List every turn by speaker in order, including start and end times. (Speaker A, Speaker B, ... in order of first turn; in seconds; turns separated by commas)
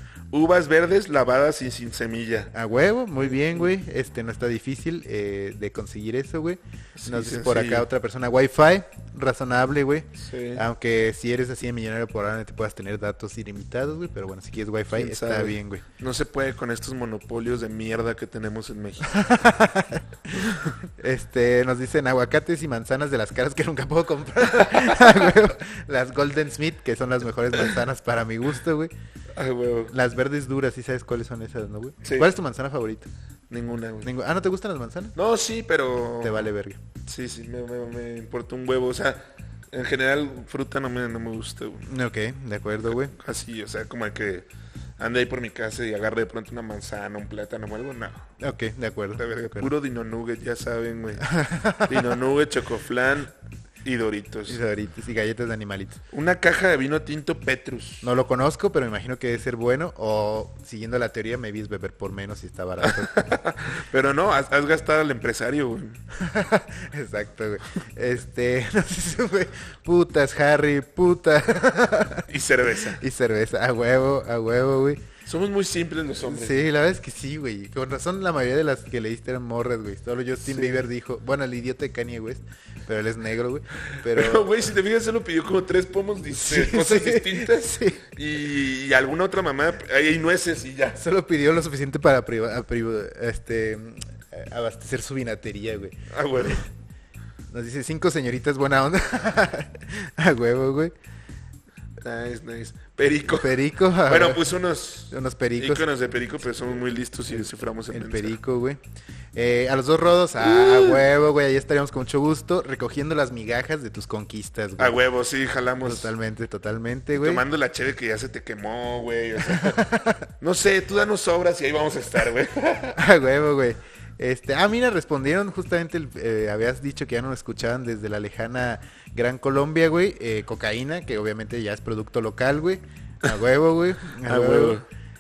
Speaker A: 0.3-2.5, Speaker B: 2.5-15.8, Speaker A: 3.3-3.7, Speaker A: 7.0-7.9, Speaker A: 10.2-10.6, Speaker A: 14.9-19.2, Speaker B: 19.1-28.9, Speaker A: 29.4-29.9, Speaker B: 29.9-33.1, Speaker A: 32.0-32.3, Speaker A: 33.5-34.1, Speaker B: 34.0-35.2, Speaker A: 35.2-36.5, Speaker B: 36.2-36.8, Speaker A: 37.1-41.9, Speaker B: 41.9-43.1, Speaker A: 42.9-44.5, Speaker A: 45.0-48.2, Speaker B: 48.4-49.7, Speaker A: 49.2-53.3, Speaker B: 51.2-52.1, Speaker A: 53.8-54.6, Speaker B: 54.5-56.0, Speaker A: 56.1-58.1, Speaker B: 58.0-63.4, Speaker A: 62.8-66.0, Speaker B: 66.1-72.3, Speaker A: 72.3-73.0, Speaker B: 73.0-75.0, Speaker A: 75.3-76.6, Speaker B: 76.2-84.5, Speaker A: 80.5-80.8, Speaker A: 83.9-91.0, Speaker B: 86.3-88.0, Speaker B: 91.0-96.5, Speaker A: 96.1-96.7, Speaker B: 97.5-100.9, Speaker A: 102.0-108.4, Speaker B: 103.2-104.5, Speaker B: 105.1-105.9, Speaker B: 107.3-108.8, Speaker B: 109.3-115.0, Speaker A: 110.4-111.1, Speaker A: 114.8-116.1, Speaker B: 115.8-117.4, Speaker A: 117.2-119.8, Speaker B: 119.4-120.3, Speaker A: 120.4-123.0, Speaker B: 123.0-134.8, Speaker A: 134.2-134.8